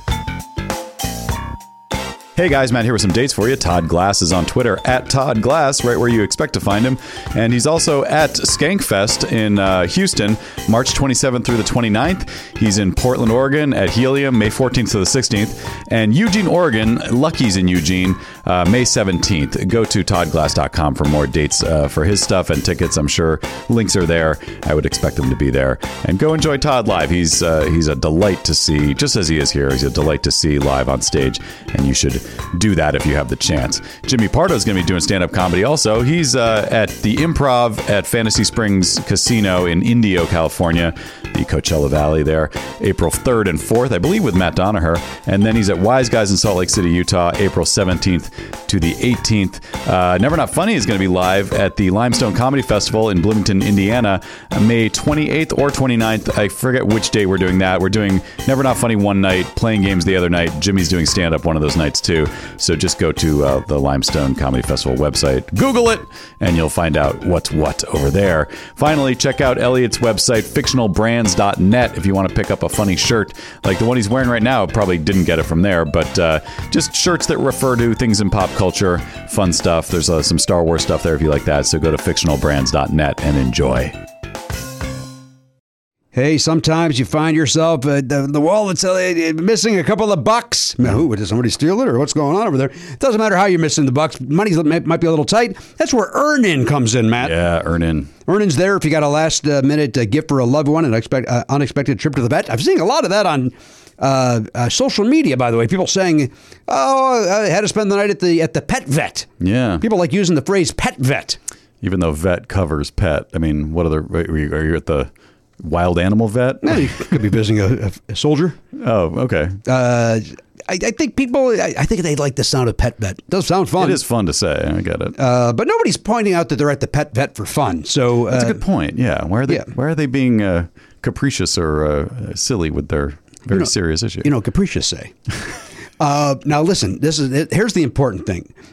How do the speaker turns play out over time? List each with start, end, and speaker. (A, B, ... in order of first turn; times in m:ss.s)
0:02.4-1:24.0 A
1:26.1-1:37.4 B
1:37.2-1:38.1 A
1:38.3-1:49.3 B
1:49.4-1:49.8 A
1:49.8-1:51.4 B
1:51.8-1:57.2 A
1:56.6-1:58.6 B
1:58.7-1:59.6 A
1:59.6-2:04.0 B
2:03.8-2:05.2 A
2:05.2-2:08.6 B
2:08.3-2:14.3 A
2:13.5-2:15.2 B
2:16.0-2:18.5 B